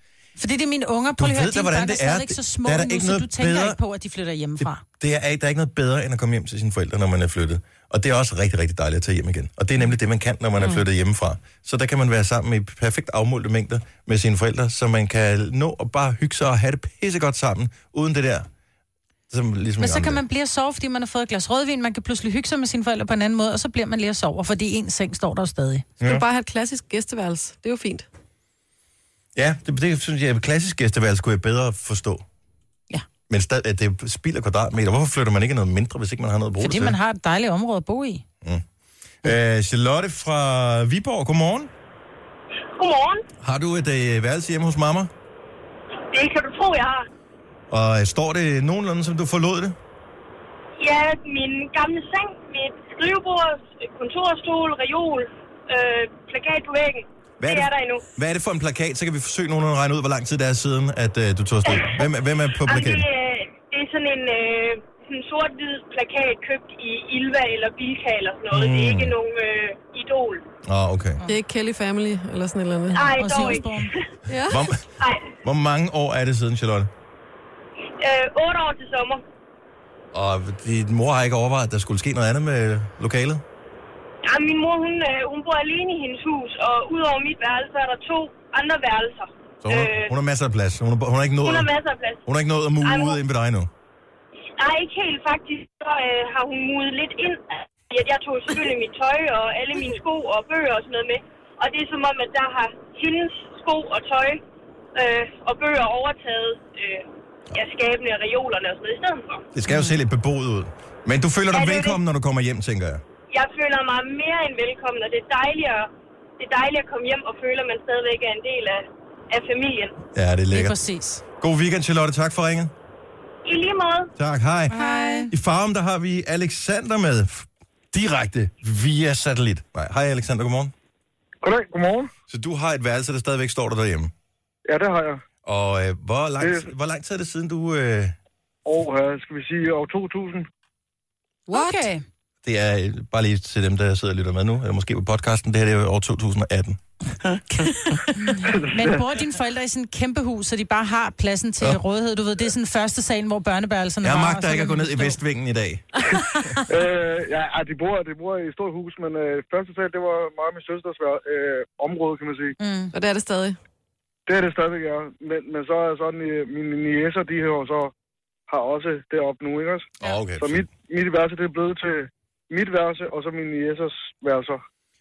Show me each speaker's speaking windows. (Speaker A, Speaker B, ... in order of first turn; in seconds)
Speaker A: 0.4-4.8, 19.8-25.9, 36.6-38.2, 73.0-73.9, 120.5-121.2, 124.7-125.3, 141.5-142.0, 148.2-155.2, 162.6-162.9
Speaker B: 1.2-3.8, 4.6-18.5, 19.3-20.2, 29.3-32.2, 33.3-37.0, 39.2-41.7, 43.4-45.1, 47.7-49.8, 57.4-63.0, 68.5-69.1, 70.7-71.2, 74.5-74.8, 75.4-76.9, 80.1-83.4, 89.6-91.7, 92.2-93.7, 109.5-113.0, 120.1-120.8, 121.4-122.7, 124.2-124.8, 125.3-130.7, 132.3-134.1, 135.4-138.2, 142.4-146.8, 154.0-156.1, 170.0-170.7
Speaker C: 26.0-28.1, 71.3-73.6, 74.3-74.7, 141.5-141.8, 162.9-163.6
Speaker D: 42.7-43.2, 46.1-47.0, 50.8-58.0, 61.7-62.0, 62.6-70.4, 72.9-74.0, 75.0-75.3, 78.0-79.2, 84.2-90.1, 91.4-92.2, 92.8-93.2, 94.6-104.4, 104.9-109.5, 111.5-112.0, 113.3-120.0, 123.4-124.1
Speaker E: 131.4-132.1, 134.7-135.2, 136.4-136.7, 138.7-140.5, 148.7-149.0, 156.7-162.6, 164.3-167.9, 168.5-174.6